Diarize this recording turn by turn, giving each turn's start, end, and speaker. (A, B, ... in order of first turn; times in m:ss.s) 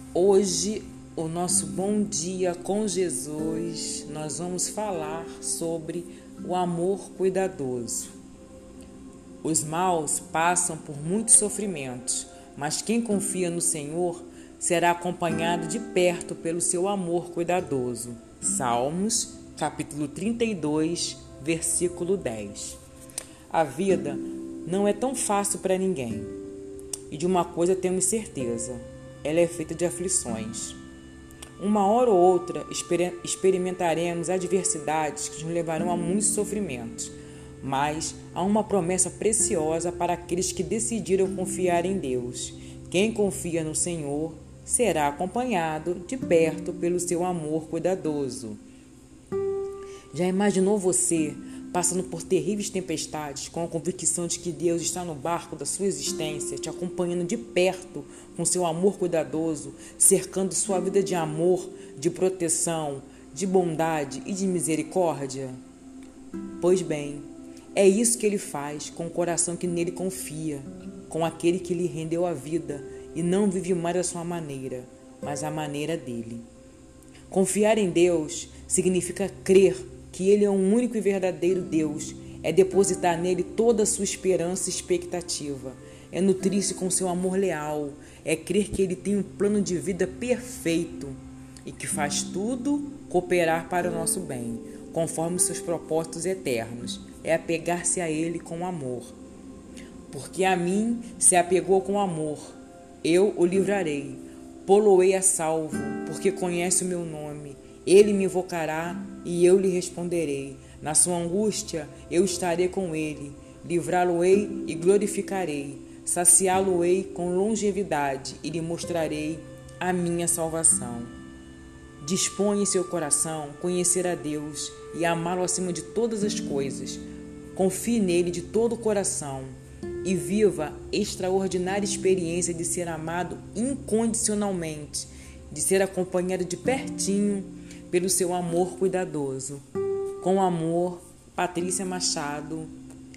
0:00.1-0:08.1 A
0:09.4-0:22.8 A
0:23.5-0:26.4 A
0:27.1-0:30.8 A
0:31.6-0:48.6 A
0:50.1-1:05.6 A
1:06.6-1:16.4 A
1:17.3-1:39.1 A
1:40.1-2:01.1 A
2:02.0-2:07.0 A
2:07.6-2:19.6 A
2:20.2-2:22.7 A